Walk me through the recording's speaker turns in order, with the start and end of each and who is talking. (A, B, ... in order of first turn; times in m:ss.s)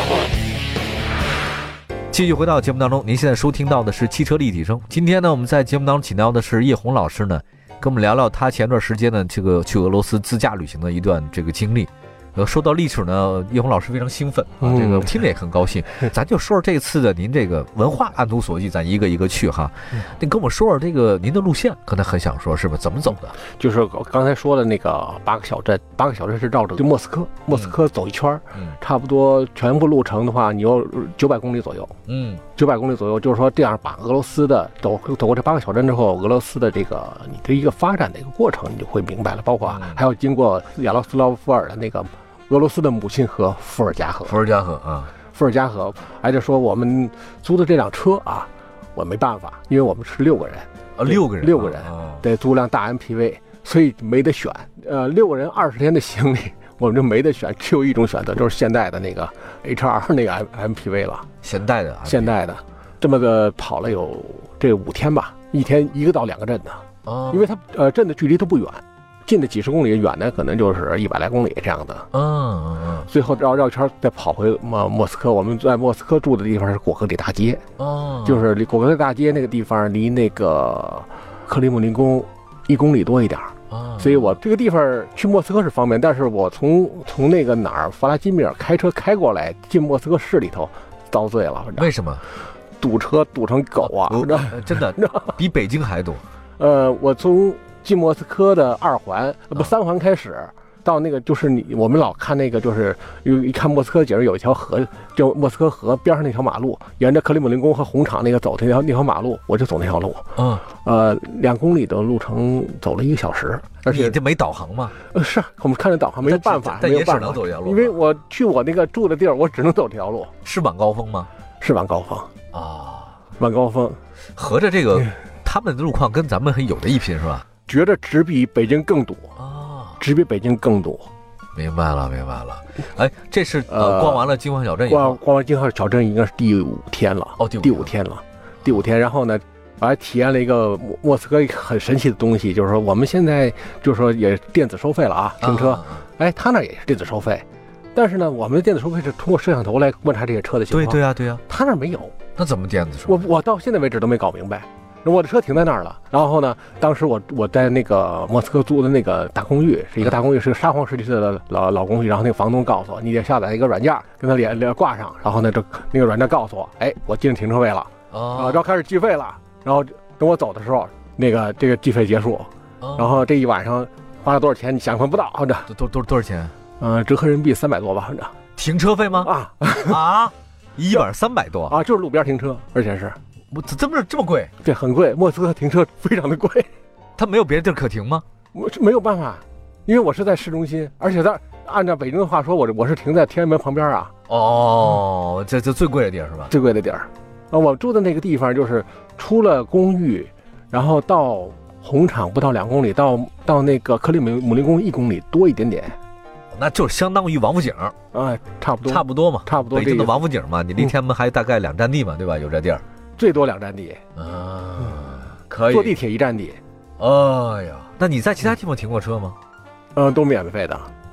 0:02.1-0:23.4 A
0:14.6-0:15.2 B
0:23.4-0:32.0 B
0:32.1-0:32.4 A
0:32.6-0:44.4 B
0:39.6-0:40.0 A
0:44.2-0:45.1 A
0:45.3-1:01.3 B
0:51.0-0:52.2 A
1:01.4-1:02.3 A
1:02.0-1:12.1 B
1:07.0-1:07.5 A
1:12.1-1:13.1 A
1:13.1-1:17.6 B
1:17.8-1:18.4 A
1:18.2-1:31.9 B
1:23.7-1:24.4 A
1:31.8-1:32.2 A
1:32.8-1:35.3 B
1:33.8-1:36.2 A
1:36.6-1:54.2 B
1:50.4-1:50.6 A
1:53.9-1:55.0 A
1:55.1-2:00.3 B
1:56.2-1:57.9 A
2:00.4-2:01.3 A
2:01.6-2:02.3 B
2:02.5-2:03.2 A
2:03.4-2:04.0 B
2:04.4-2:07.4 A
2:07.7-2:09.3 B
2:09.4-2:10.0 A
2:10.0-2:11.1 B
2:11.6-2:15.2 A
2:13.7-2:14.3 B
2:14.9-2:32.1 B
2:17.4-2:17.9 A
2:25.4-2:26.0 A
2:30.7-2:31.4 A
2:32.4-2:33.3 A
2:33.1-2:55.7 B
2:48.1-2:48.6 A
2:52.8-2:53.2 A
2:55.7-2:56.6 A
2:56.8-2:58.4 B
2:58.6-2:59.3 A
2:59.2-3:00.0 B
2:59.8-3:01.8 A
3:01.7-3:03.2 B
3:03.5-3:04.5 A
3:04.6-3:06.7 B
3:07.2-3:08.2 A
3:08.5-3:14.1 B
3:14.3-3:16.5 A
3:16.5-3:26.0 B
3:26.5-3:28.0 A
3:28.1-3:30.2 B
3:28.8-3:32.8 A
3:33.2-3:34.0 B
3:34.2-3:36.0 A
3:35.7-3:36.6 B
3:37.0-3:39.4 A
3:40.0-3:40.9 B